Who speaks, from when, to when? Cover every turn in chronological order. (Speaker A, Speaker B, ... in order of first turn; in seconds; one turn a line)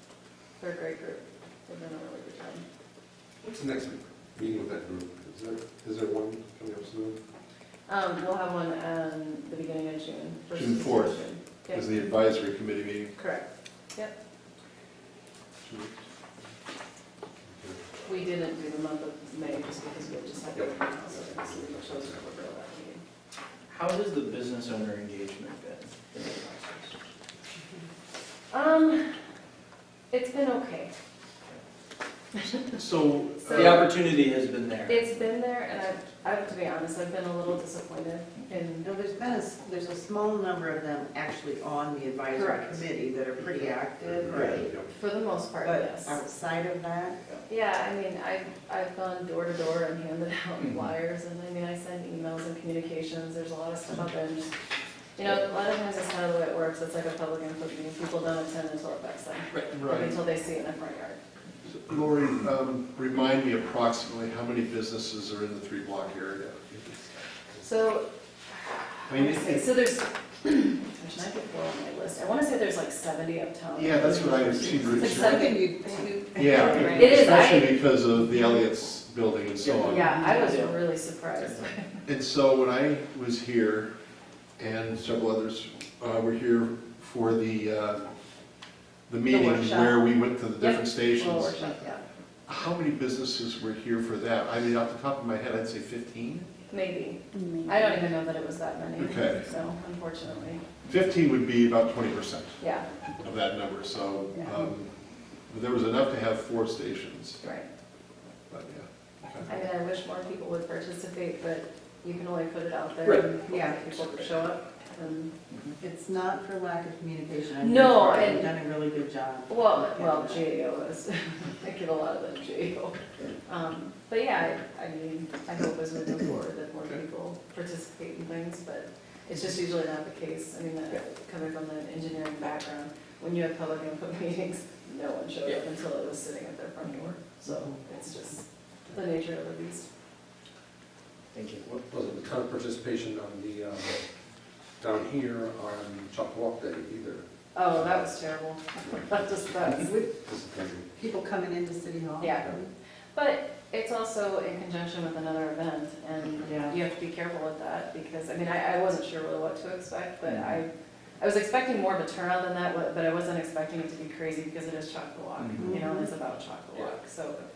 Speaker A: 0.6-2.6
Speaker B: 3.4-7.2
Speaker A: 7.9-12.0
Speaker C: 10.5-13.1
Speaker A: 13.2-14.1
Speaker C: 15.6-16.0
Speaker B: 17.5-17.8
Speaker A: 18.1-23.0
Speaker B: 20.5-22.2
Speaker D: 23.7-26.9
Speaker A: 28.5-29.1
Speaker A: 30.1-30.9
Speaker C: 32.5-33.9
Speaker D: 33.5-35.0
Speaker A: 34.9-38.9
Speaker E: 38.8-44.7
Speaker A: 42.3-42.9
Speaker B: 44.3-44.8
Speaker A: 44.9-46.2
Speaker E: 45.6-47.2
Speaker A: 47.5-54.5
Speaker D: 50.6-50.9
Speaker A: 55.1-61.2
Speaker C: 59.7-60.2
Speaker C: 61.6-66.7
Speaker A: 67.6-68.1
Speaker C: 69.1-69.7
Speaker A: 69.1-75.7
Speaker C: 73.7-75.5
Speaker E: 75.0-77.4
Speaker C: 76.3-80.1
Speaker A: 76.6-77.8
Speaker D: 79.6-80.8
Speaker A: 79.8-82.0
Speaker E: 80.1-80.5
Speaker C: 82.0-83.9
Speaker C: 84.6-88.1
Speaker C: 89.1-91.6
Speaker A: 89.3-90.0
Speaker A: 90.6-92.0
Speaker C: 92.5-96.5
Speaker A: 96.7-100.6
Speaker C: 99.0-99.5
Speaker C: 100.8-102.6
Speaker A: 102.6-102.9
Speaker C: 103.2-104.9
Speaker C: 105.5-107.4
Speaker A: 107.4-107.7
Speaker C: 108.5-109.5
Speaker A: 109.5-115.3
Speaker E: 113.5-114.2
Speaker E: 115.8-120.5
Speaker A: 117.6-118.5
Speaker A: 119.5-139.9
Speaker D: 141.3-141.8
Speaker B: 141.9-144.0
Speaker B: 144.8-147.9
Speaker A: 147.5-150.1
Speaker B: 150.2-150.9
Speaker E: 150.9-152.7
Speaker A: 152.2-152.5
Speaker A: 153.1-167.4
Speaker E: 156.4-156.8
Speaker D: 160.3-160.6
Speaker D: 165.4-165.7
Speaker E: 165.6-166.1